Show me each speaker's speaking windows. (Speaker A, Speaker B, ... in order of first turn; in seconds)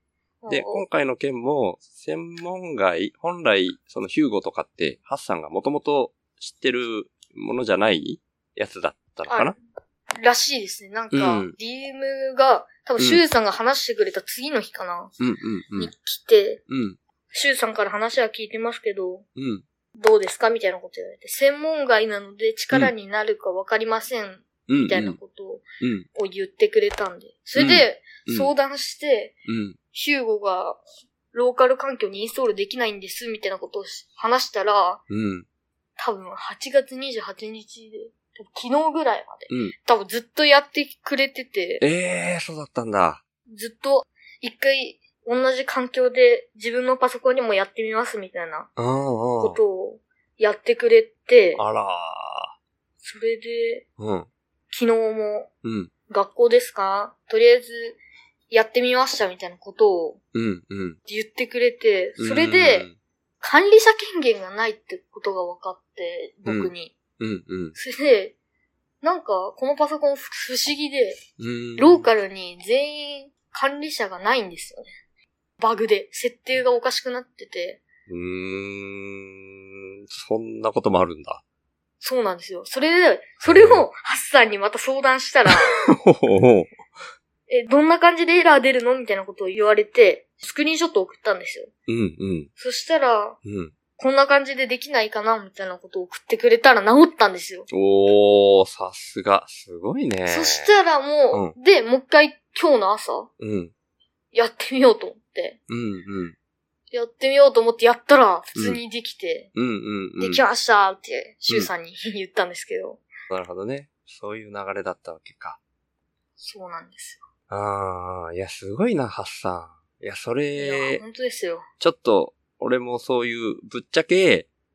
Speaker A: 0.4-0.8, 9.3-9.6, 10.2-15.1, 15.8-16.6, 17.3-19.3, 20.0-29.4, 29.9-35.0, 36.0-41.8, 43.5-48.7, 49.4-51.6, 53.0-53.9, 54.7-55.5, 56.1-58.0, 58.5-60.2, 61.1-62.9, 63.4-66.9, 67.8-68.3, 69.0-71.2, 71.8-74.9, 75.6-77.8, 82.0-85.8, 87.5-91.7, 92.6-93.4, 94.0-97.7, 100.3-103.3, 104.3-105.6, 106.9-109.5, 110.2-113.0, 116.4-117.2, 120.6-121.7
Speaker B: 0.5-9.5, 11.1-11.6, 15.2-15.9, 16.7-17.0, 19.4-19.6, 24.7-25.2, 25.8-26.1, 27.6-28.5, 29.5-29.8, 35.1-35.5, 39.5-39.8, 41.8-43.2, 48.8-49.6, 51.6-52.5, 54.0-54.3, 55.6-55.9, 60.3-61.0, 62.2-63.0, 66.5-67.8, 71.4-72.1, 78.1-81.4, 83.5-83.8, 85.8-86.8, 91.9-92.5, 93.4-93.7, 97.7-100.7, 103.4-103.7, 105.7-106.3, 108.5-108.8, 109.5-110.4, 113.3-115.6, 117.5-121.0, 121.8-124.5